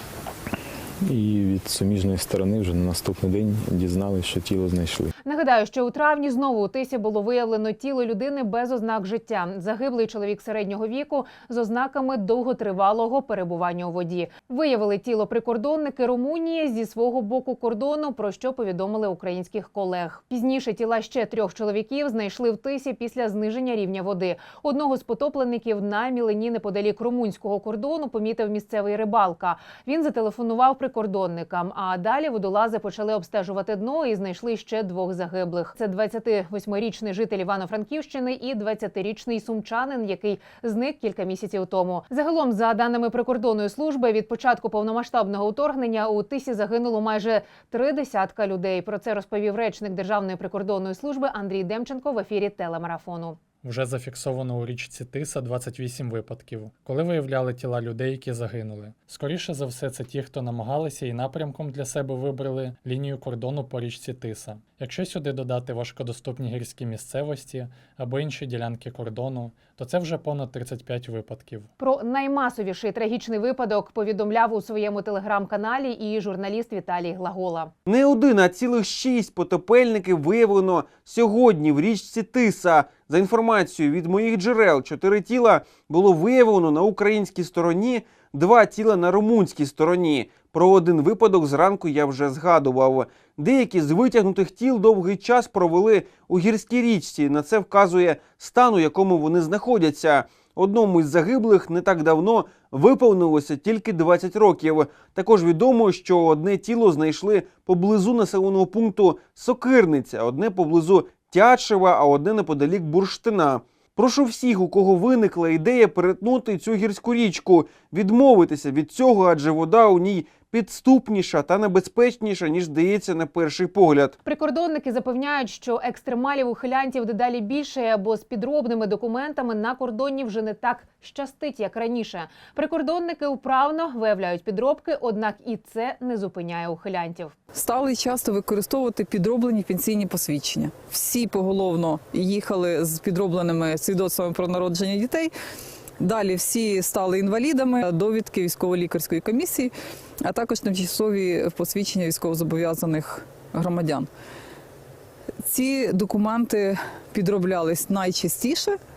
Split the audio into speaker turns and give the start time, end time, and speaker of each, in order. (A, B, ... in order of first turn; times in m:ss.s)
0:01.0-0:05.1 A
0:05.2-0:53.4 B
0:53.6-1:11.7 C
1:11.8-1:17.7 B
1:17.9-2:04.2 D
2:04.2-2:17.3 B
2:17.5-2:25.3 E
2:26.0-2:29.7 E
2:30.2-2:34.1 E
2:35.4-2:38.8 E